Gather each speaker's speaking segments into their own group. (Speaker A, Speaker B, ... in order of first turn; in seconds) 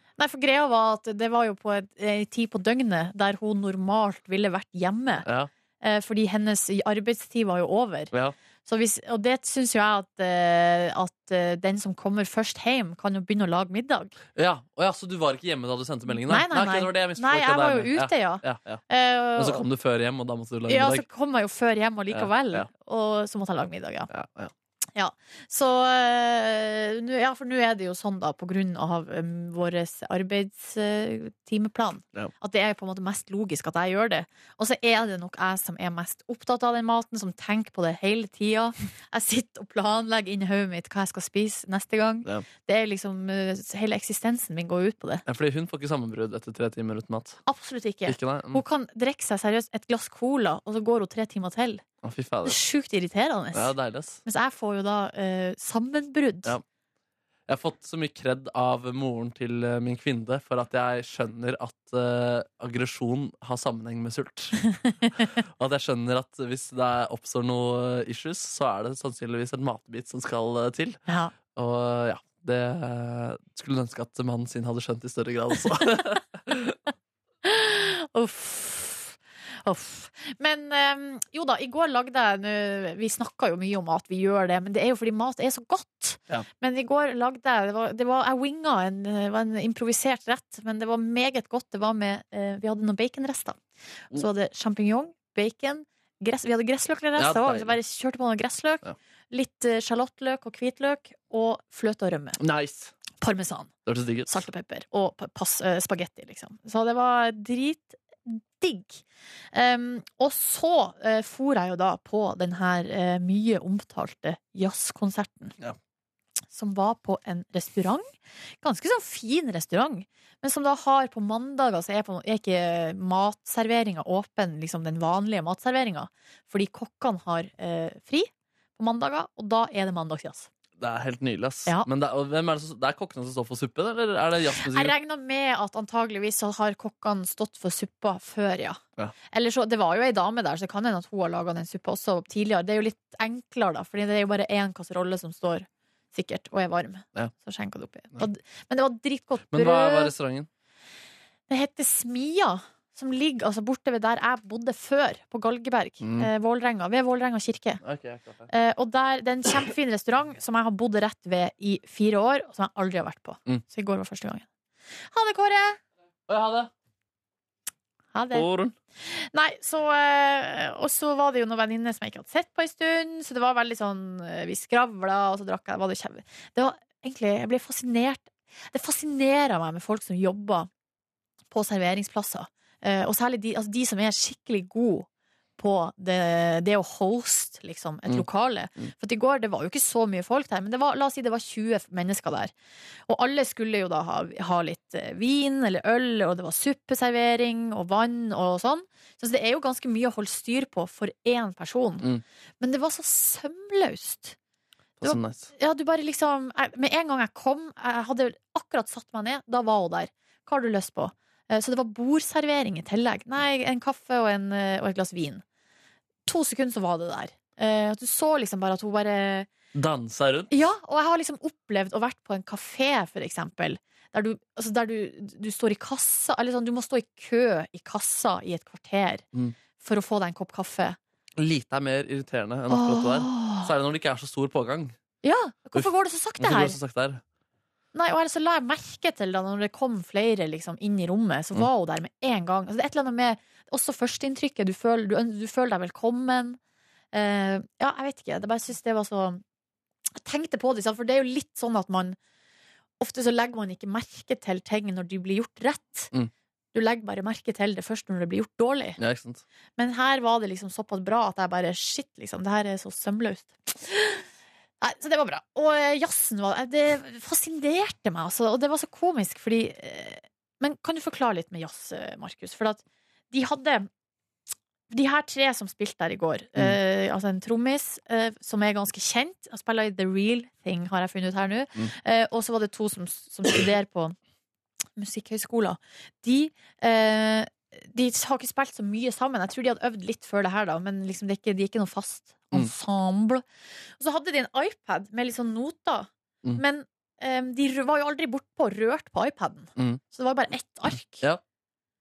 Speaker A: 0.2-5.2, 5.8-8.1, 8.7-14.1, 16.2-19.6, 20.7-24.1, 24.9-45.2, 47.5-51.8, 52.4-53.7, 54.2-56.5, 77.4-93.6, 94.1-102.4, 103.2-103.7, 104.3-109.0, 109.5-115.5, 116.5-118.0, 118.6-130.5, 134.6-138.8, 139.3-150.1, 151.5-157.8, 158.5-164.4, 165.1-165.8, 168.1-168.4, 169.0-180.7, 181.5-185.1, 185.6-192.5, 193.1-202.1, 202.6-204.3, 205.0-215.4, 216.3-219.5, 220.5-229.2, 229.8-231.0, 232.7-233.7, 235.2-236.8, 237.9-246.6, 247.1-249.4, 250.2-252.2, 253.0-256.1, 256.7-259.0, 259.8-264.2, 264.8-273.9, 274.9-284.1, 285.0-293.4, 294.0-301.2
Speaker B: 5.2-5.5, 14.3-18.8, 19.4-21.1, 22.1-22.7, 24.1-24.5, 45.3-47.4, 48.1-48.6, 52.0-52.6, 53.5-54.2, 57.5-64.7, 65.6-71.0, 71.5-76.8, 97.2-97.7, 102.4-102.9, 103.8-104.4, 130.8-134.9, 149.5-150.5, 156.0-156.3, 157.8-158.5, 166.3-166.7, 168.3-168.7, 205.0-205.5, 219.7-220.5, 231.4-234.9, 236.4-237.2, 259.0-259.4